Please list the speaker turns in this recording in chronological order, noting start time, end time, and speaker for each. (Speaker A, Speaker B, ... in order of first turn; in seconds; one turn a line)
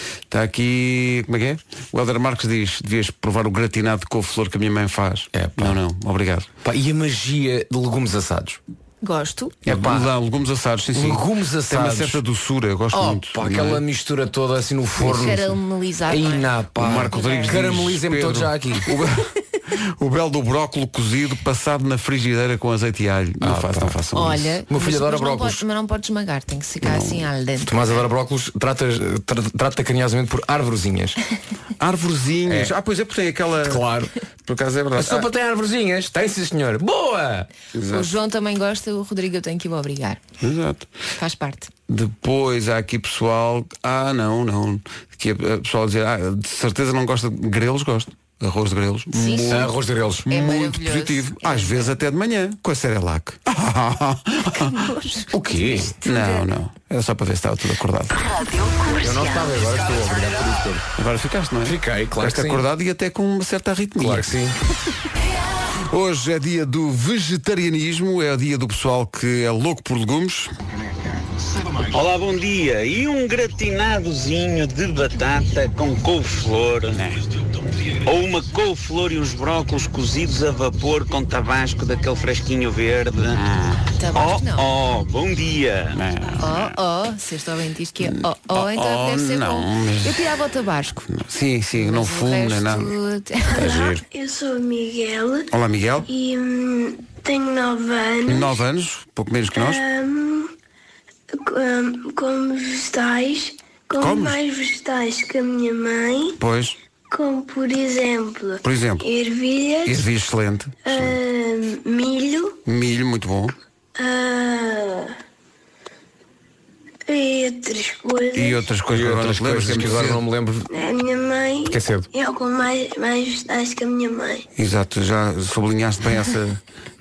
Speaker A: 0.3-6.5
Speaker B: 5.3-5.7
Speaker B: 6.6-8.6
Speaker C: 9.0-9.6
Speaker B: 9.7-10.1
Speaker A: 9.7-13.8
Speaker B: 10.9-12.2
Speaker B: 12.9-18.9
Speaker C: 15.0-17.6
Speaker A: 16.8-24.6
Speaker B: 23.4-23.9
Speaker C: 24.1-28.0
Speaker B: 24.7-25.6
Speaker A: 26.8-27.2
Speaker B: 27.6-31.2
Speaker A: 31.8-33.8
Speaker B: 33.6-34.1
Speaker A: 34.5-35.3
Speaker B: 35.0-37.5
Speaker A: 37.7-38.1
Speaker C: 37.9-40.2
Speaker A: 40.4-40.9
Speaker C: 41.2-41.7
Speaker A: 41.9-49.7
Speaker C: 49.1-49.7
Speaker B: 49.5-50.3
Speaker A: 50.3-54.8
Speaker C: 50.3-52.0
Speaker C: 54.5-56.5
Speaker B: 55.3-55.9
Speaker A: 56.0-58.3
Speaker B: 58.9-60.8
Speaker D: 59.0-59.5
Speaker A: 60.9-64.3
Speaker B: 61.6-62.6
Speaker B: 64.0-64.5
Speaker A: 65.9-70.5
Speaker E: 71.9-77.2
Speaker E: 78.0-86.0
Speaker C: 84.0-84.7
Speaker A: 85.9-86.7
Speaker C: 86.4-91.1
Speaker A: 88.0-90.2
Speaker A: 91.1-92.9
Speaker C: 91.8-93.7
Speaker D: 93.5-95.5
Speaker B: 93.6-94.0
Speaker A: 95.5-96.1
Speaker D: 96.1-98.6
Speaker A: 98.3-99.8
Speaker D: 99.5-100.5
Speaker D: 101.3-106.4
Speaker A: 104.0-104.4
Speaker A: 106.4-106.8
Speaker D: 107.1-110.1
Speaker A: 108.6-109.0
Speaker A: 109.8-111.2
Speaker D: 110.8-112.6
Speaker A: 112.6-113.5
Speaker D: 114.0-115.1
Speaker D: 117.1-118.7
Speaker A: 118.3-120.2
Speaker B: 118.9-120.7
Speaker D: 120.7-124.5
Speaker B: 121.7-122.1
Speaker A: 124.5-126.6